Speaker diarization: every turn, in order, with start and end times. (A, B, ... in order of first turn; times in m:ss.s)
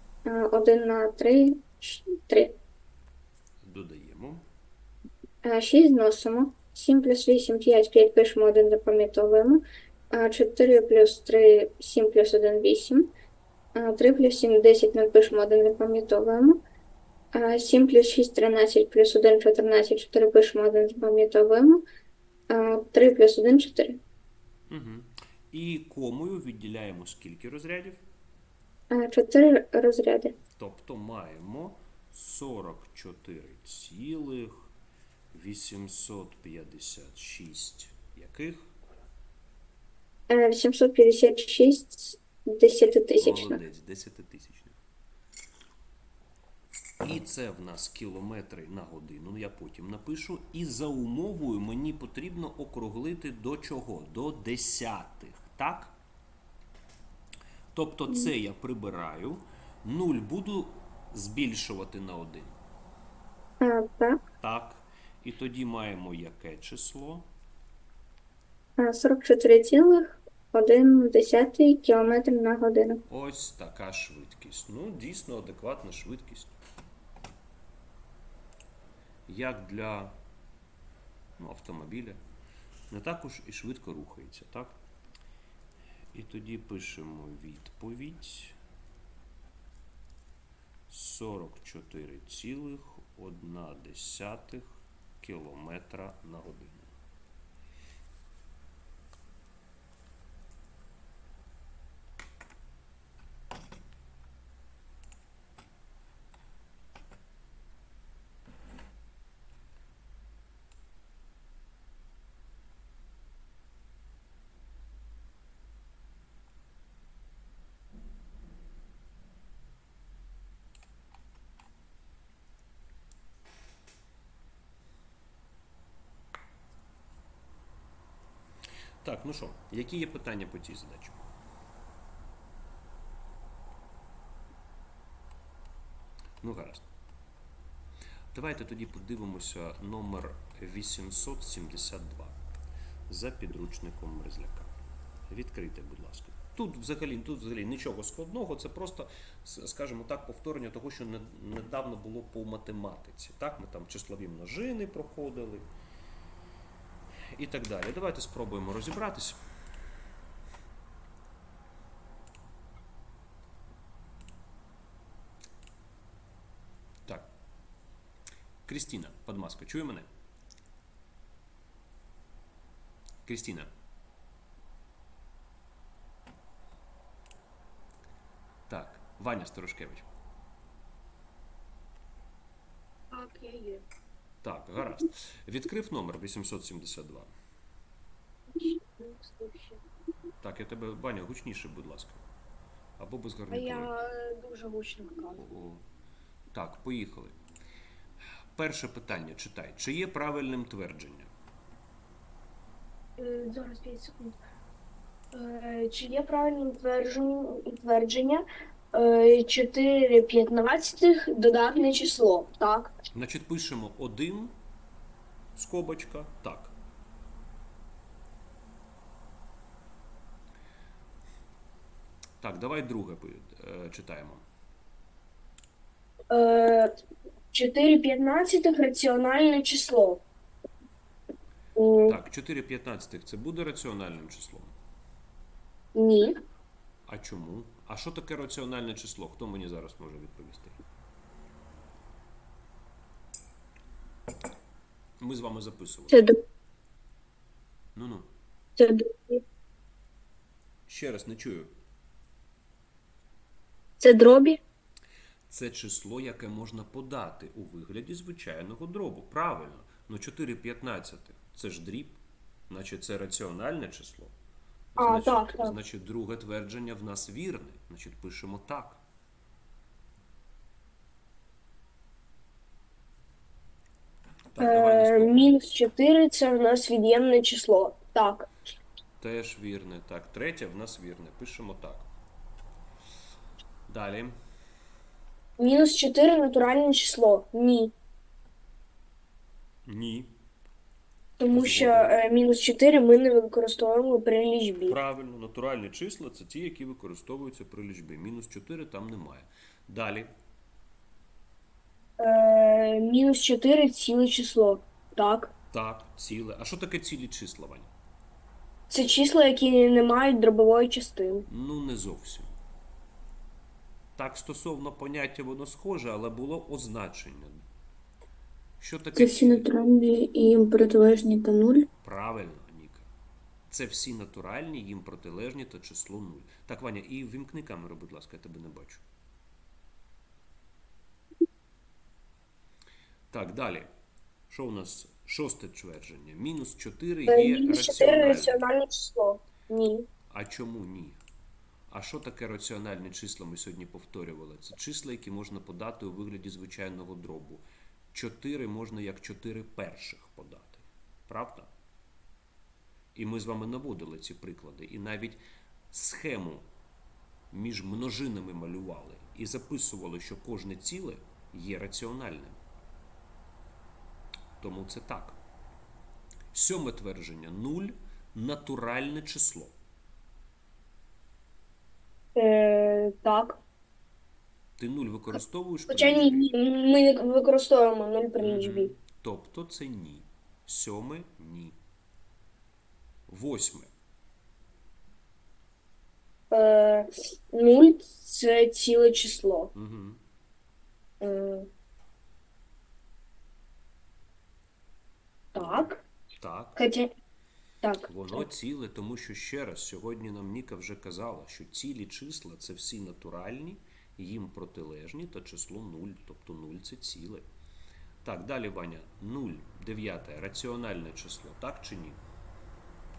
0:00.2-0:02.6 A
0:03.6-0:04.5 B
0:05.4-0:13.1 A
0:13.8-0:16.6 A
0:17.3-0:21.8 A
0:22.5-0:24.0 A
0:24.7-0:28.0 B
0:28.9-0:30.4 A
0:30.6-0:34.7 B
0:35.3-0:38.7 B
0:40.3-0:43.6 A
0:43.2-0:44.8 B
0:47.0-0:55.9 B
0:57.7-1:02.6 B
1:03.6-1:04.2 A
1:04.4-1:07.3 B
1:08.8-1:13.0 A
1:13.1-1:16.6 B
1:19.3-1:20.2 B
1:21.4-1:22.2 B
1:22.9-1:24.8 B
1:26.1-1:28.6 B
1:30.9-1:36.9 B
2:09.0-2:11.2 B
2:16.4-2:16.9 B
2:18.3-2:22.4 B
2:23.1-2:24.7 B
2:25.3-2:35.7 B
2:37.3-2:39.4 B
2:48.7-2:50.1 B
2:53.3-2:53.7 B
2:58.7-3:00.1 B
3:03.1-3:03.8 C
3:04.4-3:07.3 B
3:08.6-3:09.8 C
3:10.4-3:12.2 B
3:13.0-3:13.9 B
3:13.5-3:15.4 C
3:15.4-3:15.8 B
3:16.5-3:17.4 B
3:18.6-3:21.3 B
3:23.2-3:24.4 C
3:25.3-3:32.9 C
3:33.1-3:34.6 B
3:35.6-3:36.7 B
3:42.4-3:44.4 B
3:46.3-3:46.9 C
3:47.5-3:50.2 C
3:51.8-3:52.2 C
3:52.1-3:54.7 B
3:56.0-3:56.4 C
3:57.1-4:00.8 B
4:05.2-4:06.3 B
4:06.1-4:06.4 C
4:08.0-4:08.3 B
4:08.8-4:09.4 C
4:10.9-4:11.7 B
4:14.0-4:14.6 C
4:15.5-4:24.3 B
4:25.0-4:29.0 B
4:25.0-4:25.7 C
4:34.6-4:35.5 B
4:34.6-4:38.5 C
4:39.2-4:42.1 B
4:43.9-4:44.4 B
4:45.6-4:47.9 C
4:49.9-4:50.4 B
4:51.4-4:55.0 C
4:51.5-4:52.2 B
4:54.8-5:00.3 B
5:02.2-5:05.5 C
5:05.7-5:07.9 B
5:08.9-5:11.5 C
5:11.5-5:12.6 B
5:14.2-5:17.6 B
5:18.8-5:19.7 B
5:19.2-5:21.9 D
5:22.0-5:23.1 B
5:23.7-5:29.0 B
5:33.3-5:33.9 B
5:34.5-5:38.6 B
5:37.3-5:40.1 C
5:40.3-5:41.2 B
5:41.9-5:51.7 B
5:53.2-5:56.7 B
5:57.5-6:02.6 B
6:04.6-6:05.4 B
6:06.5-6:09.8 B
6:12.4-6:13.6 C
6:14.8-6:16.6 B
6:15.9-6:18.9 C
6:18.4-6:21.8 B
6:23.3-6:23.9 B
6:26.5-6:29.7 C
6:29.8-6:30.2 B
6:31.2-6:31.7 C
6:35.5-6:36.0 C
6:35.6-6:36.8 B
6:36.8-6:37.1 C
6:37.8-6:38.4 C
6:38.1-6:47.4 B
6:48.2-6:52.2 B